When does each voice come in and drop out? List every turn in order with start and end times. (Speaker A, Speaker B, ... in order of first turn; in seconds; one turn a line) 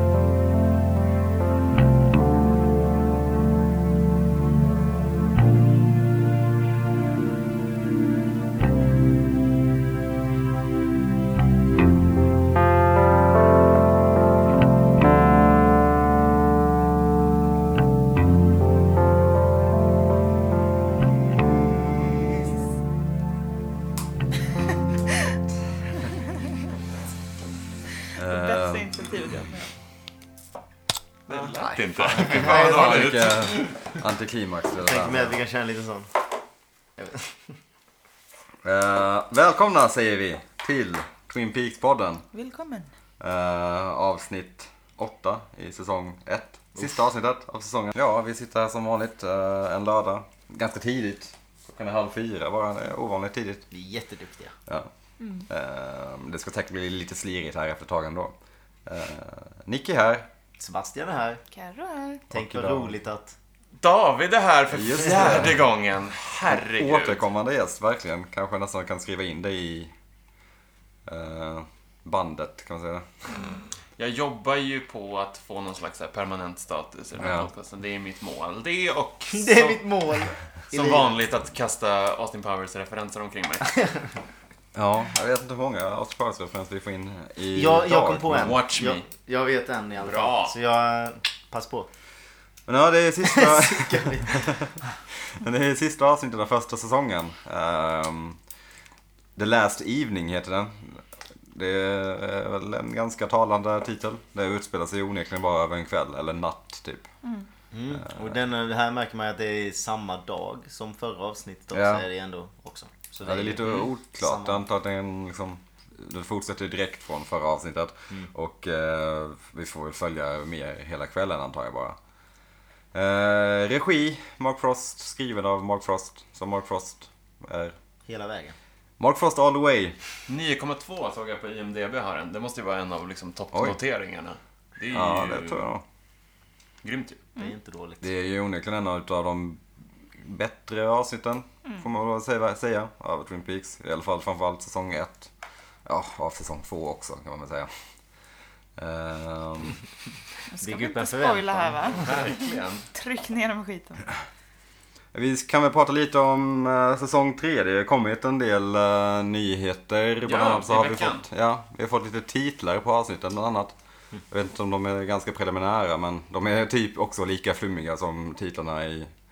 Speaker A: 28.2-29.1
Speaker B: 28.2-29.7
Speaker C: 31.3-33.9
Speaker A: 31.5-35.4
Speaker D: 32.1-33.1
Speaker D: 34.8-36.1
Speaker D: 37.0-37.4
Speaker A: 38.6-42.3
Speaker B: 42.3-42.9
Speaker A: 43.2-53.6
Speaker D: 53.7-54.5
Speaker B: 55.2-55.5
Speaker A: 55.5-58.3
Speaker A: 58.9-60.3
Speaker D: 60.6-61.4
Speaker B: 61.5-62.2
Speaker A: 62.3-62.9
Speaker D: 62.3-63.3
Speaker C: 63.8-67.2
Speaker A: 64.7-65.6
Speaker A: 66.5-69.9
Speaker A: 71.0-73.0
Speaker C: 74.0-79.9
Speaker A: 77.2-77.5
Speaker D: 79.3-81.1
Speaker C: 80.7-83.8
Speaker A: 84.7-88.6
Speaker D: 87.5-91.9
Speaker C: 88.3-89.0
Speaker C: 90.0-90.5
Speaker A: 92.7-94.7
Speaker D: 93.2-94.6
Speaker A: 95.2-98.4
Speaker A: 99.3-107.1
Speaker D: 107.7-114.6
Speaker A: 108.0-108.3
Speaker A: 111.7-112.0
Speaker A: 113.2-122.0
Speaker A: 122.9-127.8
Speaker D: 128.0-128.6
Speaker A: 129.0-129.9
Speaker C: 130.3-135.7
Speaker A: 134.9-135.8
Speaker C: 136.8-137.2
Speaker D: 137.3-138.1
Speaker A: 138.0-139.6
Speaker A: 140.2-145.3
Speaker A: 145.8-147.7
Speaker A: 148.8-149.8
Speaker B: 150.5-154.1
Speaker D: 150.6-152.1
Speaker C: 152.0-152.9
Speaker A: 155.1-163.7
Speaker C: 160.2-161.2
Speaker A: 164.3-169.1